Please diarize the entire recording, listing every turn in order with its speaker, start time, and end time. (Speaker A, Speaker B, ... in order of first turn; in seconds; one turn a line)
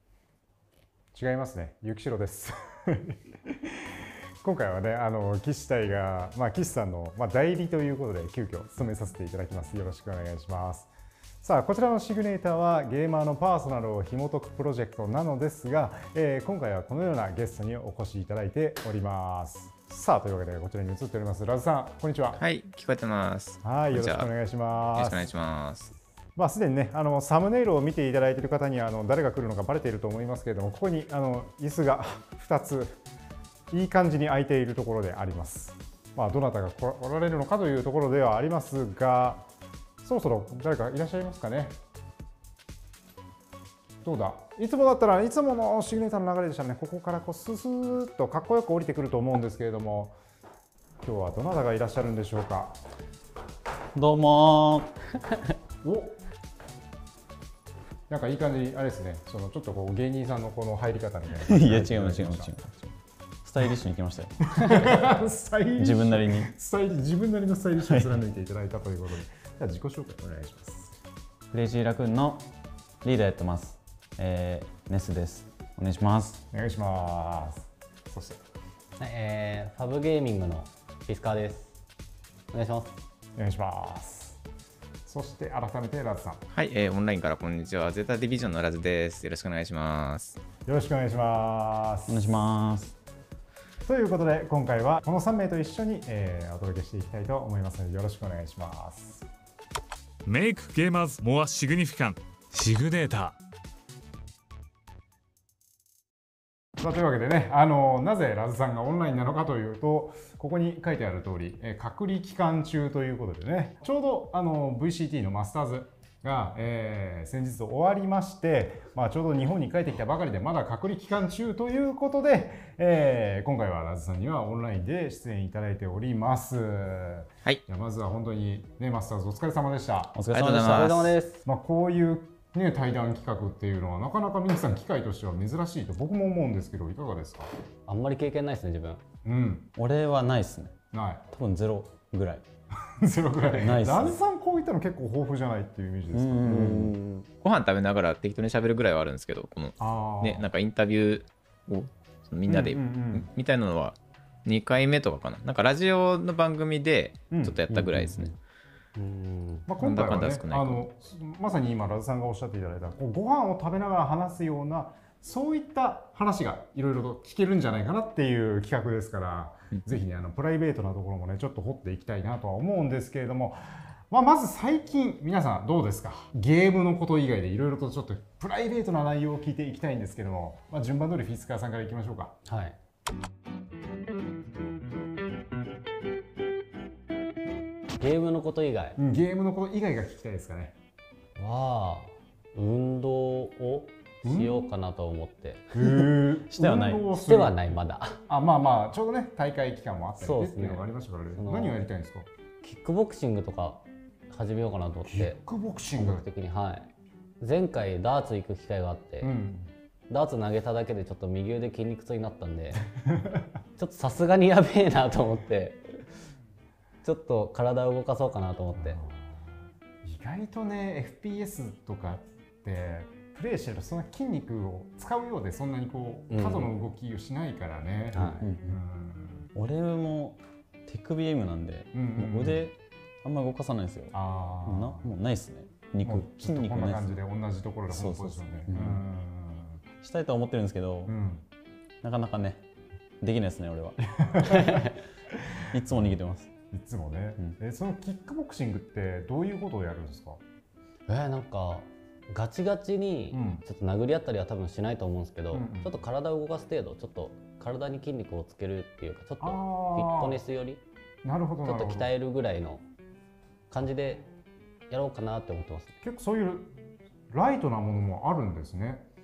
Speaker A: 1.1-10.9
Speaker A: 11.4-22.4
Speaker B: 22.4-24.3
Speaker A: 23.6-25.3
Speaker B: 25.0-25.9
Speaker A: 26.4-33.0
Speaker A: 33.7-39.5
Speaker A: 40.0-41.8
Speaker A: 44.0-50.2
Speaker A: 51.0-52.8
Speaker C: 54.0-54.9
Speaker A: 55.8-56.2
Speaker A: 58.1-62.5
Speaker C: 61.4-65.0
Speaker A: 64.5-70.9
Speaker C: 65.8-66.5
Speaker C: 71.5-72.5
Speaker C: 73.0-76.4
Speaker A: 76.5-78.4
Speaker D: 79.0-81.7
Speaker D: 82.5-83.0
Speaker A: 83.4-84.4
Speaker A: 85.1-86.4
Speaker B: 86.5-90.4
Speaker A: 90.7-92.3
Speaker C: 92.1-93.0
Speaker A: 93.8-99.3
Speaker E: 100.3-103.4
Speaker A: 106.8-130.2
Speaker C: 130.2-131.2
Speaker B: 130.3-131.1
Speaker D: 130.6-131.4
Speaker A: 131.4-137.5
Speaker D: 137.9-139.0
Speaker A: 139.2-139.7
Speaker C: 139.8-140.8
Speaker A: 140.9-141.3
Speaker C: 141.3-142.4
Speaker A: 142.9-146.9
Speaker C: 143.5-144.2
Speaker C: 146.1-147.0
Speaker D: 146.5-147.3
Speaker B: 147.4-158.3
Speaker A: 149.8-150.5
Speaker A: 152.5-153.3
Speaker A: 157.3-158.3
Speaker D: 158.9-159.7
Speaker A: 159.7-182.4
Speaker B: 159.8-160.8
Speaker D: 182.5-182.8
Speaker D: 188.0-189.0
Speaker A: 189.0-190.8
Speaker D: 191.4-195.7
Speaker A: 194.2-194.7
Speaker A: 195.7-197.6
Speaker C: 196.5-197.0
Speaker D: 197.2-198.2
Speaker A: 198.3-202.3
Speaker D: 200.2-201.8
Speaker D: 202.6-205.4
Speaker A: 205.1-206.3
Speaker D: 206.0-209.3
Speaker A: 209.2-209.7
Speaker D: 210.1-212.8
Speaker A: 213.1-213.5
Speaker D: 213.8-216.0
Speaker D: 217.0-219.0
Speaker A: 218.8-219.5
Speaker A: 220.0-229.5
Speaker D: 226.3-226.7
Speaker D: 228.1-228.4
Speaker C: 228.4-228.8
Speaker C: 229.6-234.2
Speaker A: 231.9-232.7
Speaker A: 234.1-235.1
Speaker C: 234.7-237.1
Speaker A: 236.0-239.8
Speaker C: 237.9-239.0
Speaker C: 240.0-241.2
Speaker A: 241.1-241.5
Speaker C: 242.0-242.6
Speaker C: 243.2-244.9
Speaker A: 244.2-244.8
Speaker C: 245.7-246.5
Speaker A: 245.8-246.2
Speaker A: 246.7-250.4
Speaker D: 251.1-260.8
Speaker A: 253.3-253.7
Speaker A: 255.5-256.0
Speaker A: 259.4-260.4
Speaker A: 261.2-262.1
Speaker D: 261.6-262.8
Speaker D: 263.7-264.3
Speaker D: 264.9-266.0
Speaker A: 266.0-266.7
Speaker A: 267.3-269.1